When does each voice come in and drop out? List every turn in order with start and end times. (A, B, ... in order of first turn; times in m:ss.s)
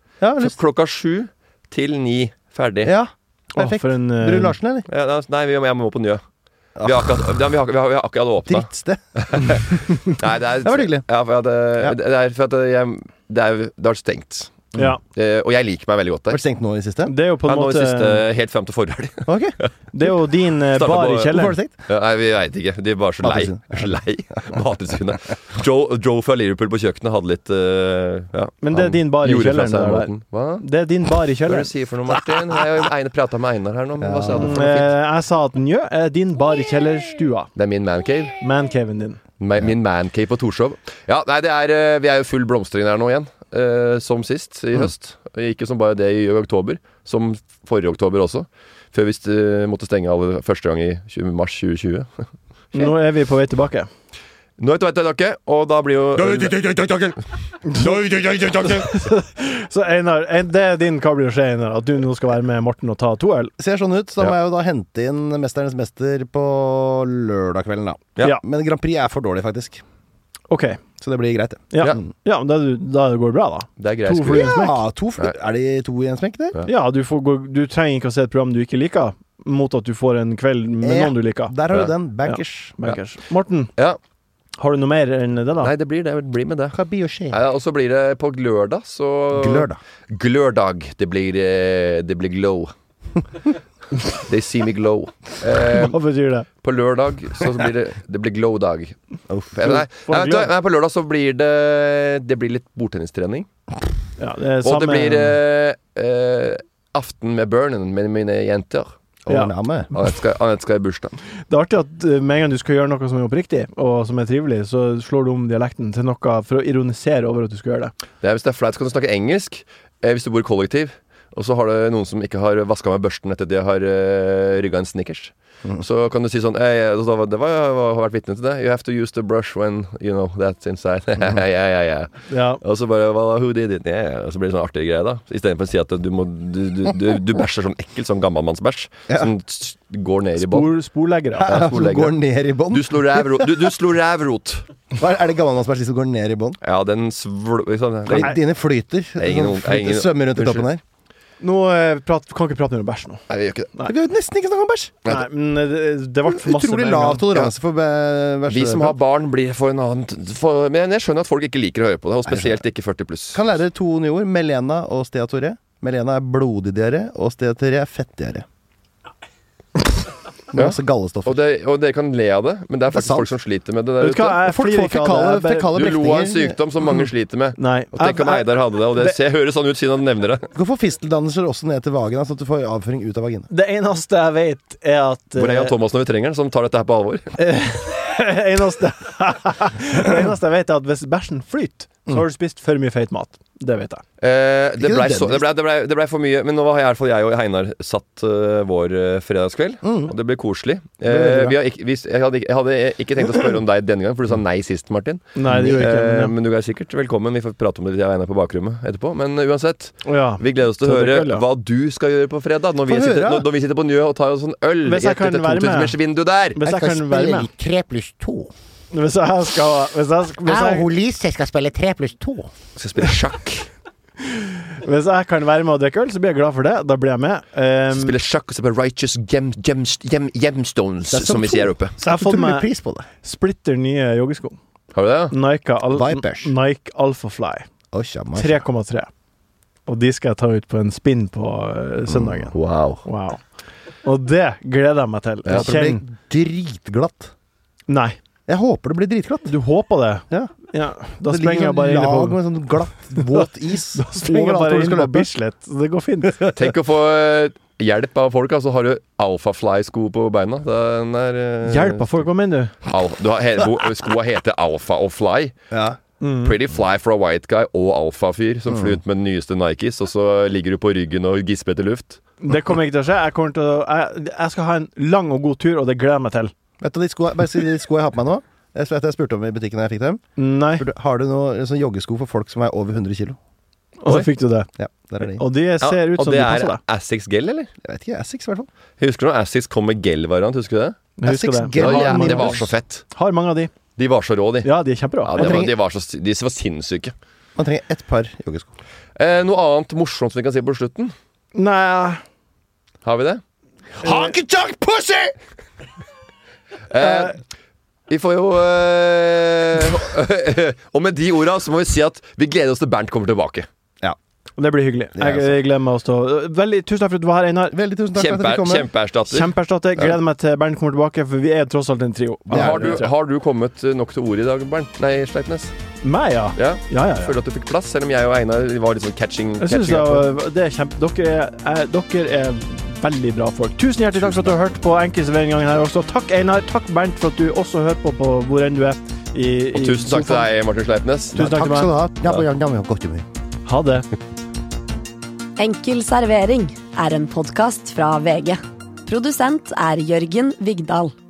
0:00.2-0:00.6 A
0:00.4-0:02.9 B
0:02.8-0:04.9 A
0:03.6-0:04.6 C
0:04.9-0:06.2 B
0:06.8-0:07.1 A
0:06.8-0:16.4 B
0:08.5-0:10.0 A
0:10.6-0:11.0 A
0:16.3-0:17.1 A
0:17.0-0:18.2 C
0:17.4-0:19.7 B
0:19.3-0:19.6 A
0:19.9-0:21.6 C
0:20.7-0:30.6 B
0:21.3-0:21.7 A
0:23.2-0:24.6 A
0:28.6-0:31.7 C
0:31.5-0:34.9 B
0:34.0-0:34.6 A
0:34.4-0:37.5 C
0:37.6-0:38.4 B
0:38.4-0:39.2 C
0:39.4-0:52.1 B
0:52.7-0:53.9 C
0:54.6-0:57.2 B
0:57.6-1:03.5 C
0:57.8-0:58.7 A
1:03.6-1:09.8 A
1:10.5-1:10.8 C
1:11.0-1:12.0 A
1:11.7-1:14.8 C
1:13.8-1:15.3 B
1:14.3-1:16.6 A
1:16.7-1:21.5 C
1:20.8-1:22.8 A
1:22.3-1:23.7 C
1:24.6-1:25.7 C
1:25.6-1:26.8 B
1:26.7-1:27.4 A
1:27.3-1:32.7 B
1:29.3-1:29.8 A
1:34.1-1:36.0 B
1:35.7-1:36.5 C
1:36.6-1:39.0 B
1:39.3-1:39.5 A
1:39.5-1:43.5 B
1:39.6-1:40.5 C
1:44.2-1:45.4 C
1:44.6-1:48.9 B
1:49.2-1:49.9 A
1:49.9-1:51.2 B
1:51.5-1:57.9 C
1:58.2-2:20.7 B
2:12.3-2:12.6 C
2:20.4-2:21.6 C
2:21.4-2:23.7 A
2:21.4-2:24.7 B
2:25.0-2:26.6 A
2:26.6-2:28.4 B
2:28.1-2:30.8 A
2:29.2-2:30.7 B
2:31.4-2:33.2 C
2:33.3-2:33.7 B
2:33.8-2:35.0 A
2:35.1-2:37.3 C
2:36.3-2:39.0 A
2:38.5-2:43.4 B
2:42.3-2:42.6 A
2:43.3-2:48.5 A
2:50.5-2:51.4 A
2:50.5-2:54.5 B
2:52.9-2:53.3 A
2:54.0-2:55.7 C
2:54.4-2:56.6 A
2:55.7-3:00.5 B
2:57.6-2:59.2 C
3:00.5-3:03.5 A
3:03.5-3:05.7 C
3:05.4-3:07.4 B
3:07.4-3:14.0 C
3:14.2-3:36.6 B
3:14.8-3:15.4 A
3:19.8-3:20.2 A
3:21.1-3:21.6 A
3:25.4-3:26.3 C
3:25.4-3:25.9 A
3:30.0-3:31.4 C
3:32.9-3:33.5 A
3:34.8-3:36.0 C
3:36.6-3:37.5 C
3:36.6-3:38.5 A
3:38.9-3:40.9 C
3:40.4-3:42.5 A
3:42.8-3:43.7 B
3:44.2-3:48.2 C
3:47.9-3:51.9 B
3:51.1-3:53.1 A
3:52.0-3:52.7 C
3:53.2-3:54.6 C
3:54.9-3:55.3 B
3:55.3-3:57.7 C
3:55.9-3:56.5 A
3:57.9-3:58.6 A
3:58.4-3:59.1 C
3:59.9-4:03.4 C
4:02.5-4:03.0 B
4:04.0-4:06.0 C
4:05.5-4:07.3 A
4:07.9-4:08.2 C
4:08.5-4:09.5 A
4:09.5-4:12.4 C
4:11.2-4:15.3 A
4:13.2-4:16.5 C
4:16.6-4:22.2 B
4:21.6-4:22.8 C
4:22.8-4:25.6 B
4:25.7-4:26.0 A
4:26.2-4:26.6 C
4:26.4-4:32.2 B
4:28.7-4:29.0 A
4:32.4-4:36.5 C
4:36.8-4:40.2 A
4:40.4-4:40.9 C
4:40.8-4:43.4 A
4:44.0-4:44.7 C
4:44.8-4:45.4 A
4:45.2-4:46.8 C
4:45.8-4:47.7 B
4:47.8-4:48.7 A
4:49.0-4:51.0 B
4:51.2-4:53.7 C
4:51.2-4:52.7 A
4:51.8-4:53.0 B
4:54.0-4:57.2 B
4:54.6-4:55.7 C
4:55.4-4:55.7 A
4:57.6-4:58.7 A
4:59.2-5:01.1 B
5:01.5-5:02.2 C
5:03.0-5:03.4 B
5:04.0-5:05.4 A
5:04.0-5:04.3 C
5:06.9-5:07.4 B
5:07.0-5:07.3 C
5:08.1-5:13.7 B
5:14.6-5:17.8 C
5:15.2-5:15.6 A
5:17.7-5:18.9 A
5:18.2-5:19.5 B
5:19.3-5:23.0 C
5:22.5-5:23.1 A
5:22.5-5:25.7 B
5:26.0-5:27.4 C
5:26.6-5:30.3 B
5:29.6-5:40.5 C
5:34.2-5:34.5 B
5:39.7-5:41.4 B
5:41.3-5:43.2 A
5:41.4-5:41.9 C
5:43.7-5:44.1 C
5:45.6-5:51.1 D